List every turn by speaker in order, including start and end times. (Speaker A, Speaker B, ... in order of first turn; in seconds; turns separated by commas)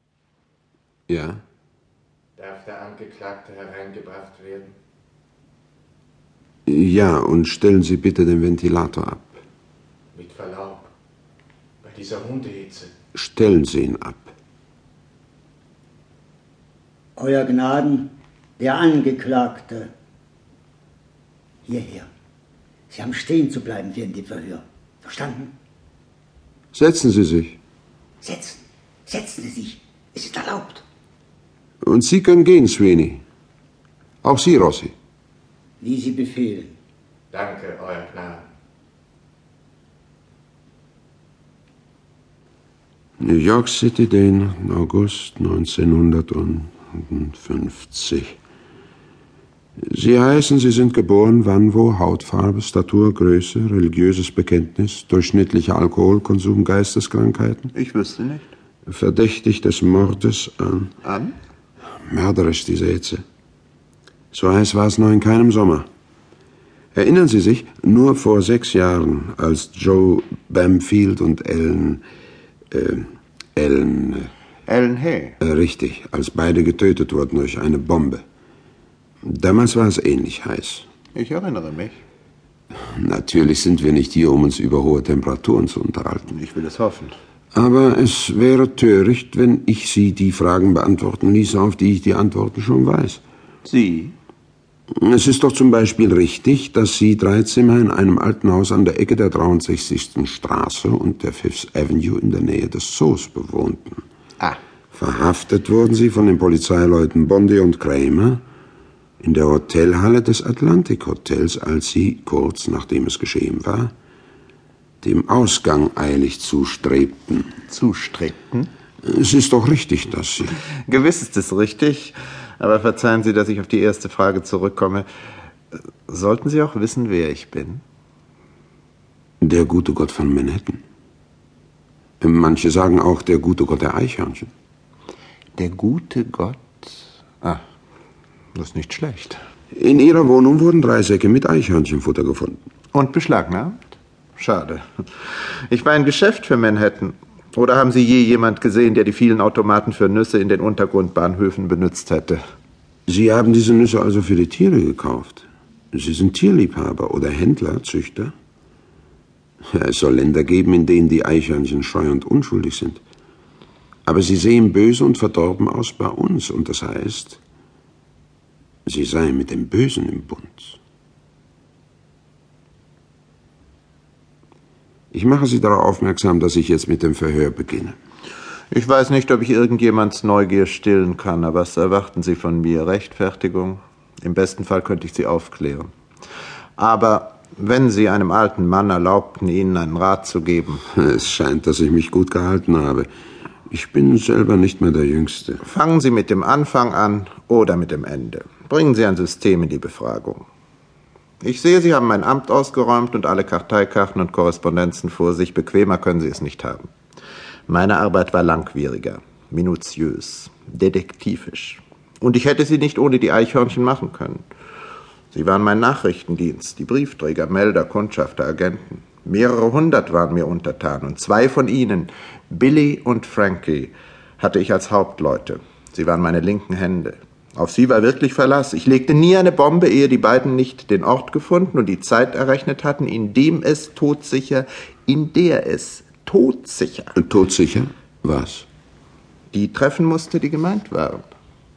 Speaker A: 1.1-1.4, Speaker B: 2.4-4.7, Speaker A: 6.7-9.4, Speaker B: 10.2-10.9, Speaker B: 11.8-12.9, Speaker A: 13.1-14.3, Speaker C: 17.2-19.9, Speaker C: 21.7-22.1, Speaker C: 22.9-25.5, Speaker A: 26.7-27.6, Speaker C: 28.2-30.8, Speaker A: 31.8-33.2, Speaker A: 34.2-34.9, Speaker C: 35.8-36.8, Speaker B: 37.3-38.4, Speaker A: 43.2-48.4, Speaker A: 49.8-57.7, Speaker D: 57.7-58.5, Speaker A: 58.9-60.9, Speaker D: 61.0-61.4, Speaker A: 62.0-63.2, Speaker A: 64.3-65.9, Speaker A: 67.0-72.0, Speaker A: 72.7-74.3, Speaker D: 74.7-75.4, Speaker A: 75.4-78.2, Speaker A: 79.2-80.9, Speaker D: 81.1-82.0, Speaker A: 82.9-86.3, Speaker D: 86.3-87.2, Speaker A: 87.5-93.2, Speaker D: 93.7-94.2, Speaker A: 95.0-104.0, Speaker A: 104.9-108.4, Speaker A: 109.2-113.9, Speaker A: 115.0-117.5, Speaker D: 117.7-118.7, Speaker A: 119.0-120.6, Speaker D: 120.9-125.1, Speaker D: 126.1-127.8, Speaker A: 129.4-130.8, Speaker A: 132.2-134.5, Speaker D: 135.6-137.6, Speaker D: 138.6-139.4, Speaker A: 139.7-142.6, Speaker D: 142.9-144.8, Speaker D: 145.7-152.4, Speaker A: 153.1-158.3, Speaker A: 159.7-163.0, Speaker A: 164.1-167.4, Speaker A: 168.8-170.8, Speaker A: 175.1-178.0, Speaker D: 178.7-185.9, Speaker D: 186.8-190.8, Speaker A: 190.9-193.1, Speaker A: 193.7-195.6, Speaker D: 195.6-200.4, Speaker D: 201.4-206.8, Speaker D: 207.7-214.4, Speaker D: 215.3-237.2, Speaker A: 237.2-238.7, Speaker D: 239.5-241.3